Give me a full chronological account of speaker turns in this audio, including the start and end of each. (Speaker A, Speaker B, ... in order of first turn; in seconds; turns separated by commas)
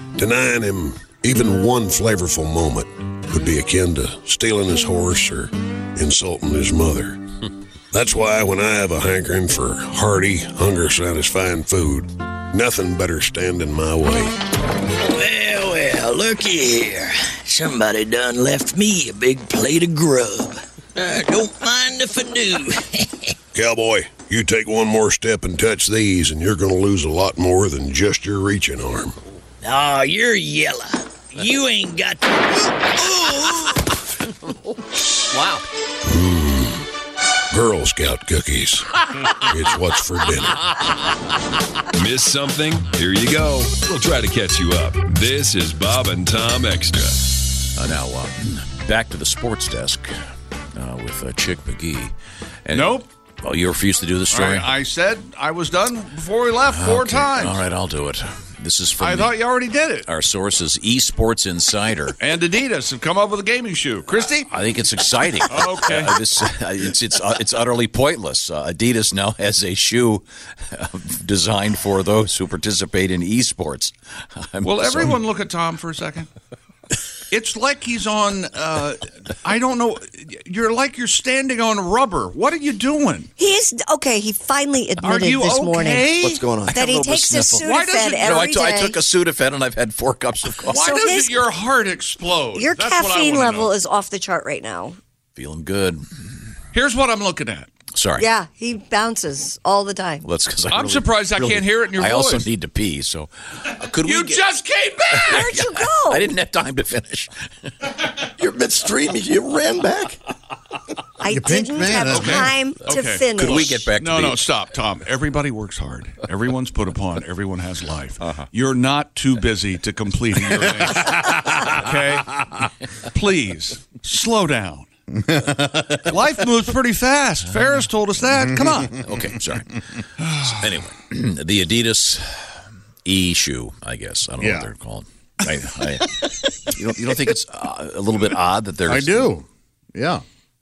Speaker A: 0.2-7.2, Speaker A: 7.9-14.4, Speaker B: 15.0-23.2, Speaker A: 23.5-29.2, Speaker B: 29.6-33.8, Speaker C: 35.3-35.6, Speaker A: 36.0-36.9, Speaker A: 37.5-40.6, Speaker D: 41.9-47.4, Speaker C: 47.7-50.2, Speaker C: 50.8-52.1, Speaker C: 52.7-54.7, Speaker E: 52.7-53.1, Speaker E: 54.3-57.6, Speaker C: 56.7-59.4, Speaker E: 59.0-60.1, Speaker C: 60.0-62.2, Speaker E: 62.2-64.5, Speaker C: 64.5-75.2, Speaker E: 65.5-66.2, Speaker E: 74.6-76.3, Speaker E: 77.3-83.3, Speaker F: 83.4-89.0, Speaker E: 85.0-86.4, Speaker G: 86.1-87.7, Speaker E: 87.6-88.4, Speaker C: 88.2-90.9, Speaker E: 90.6-93.7, Speaker F: 90.8-91.4, Speaker F: 92.5-95.0, Speaker C: 95.4-96.0, Speaker E: 96.7-97.7, Speaker C: 97.9-98.3, Speaker F: 98.2-100.3, Speaker C: 100.2-104.4, Speaker E: 100.7-102.5, Speaker E: 104.0-105.4, Speaker C: 105.1-107.9, Speaker F: 105.3-106.3, Speaker G: 108.4-110.2, Speaker F: 111.2-113.9, Speaker H: 111.3-112.5, Speaker E: 112.1-124.9, Speaker C: 113.4-114.4, Speaker H: 120.9-121.5, Speaker H: 125.1-126.0, Speaker E: 126.0-129.0, Speaker H: 128.4-129.2, Speaker C: 129.0-129.7, Speaker C: 130.4-139.3, Speaker H: 134.4-134.7, Speaker H: 138.9-140.2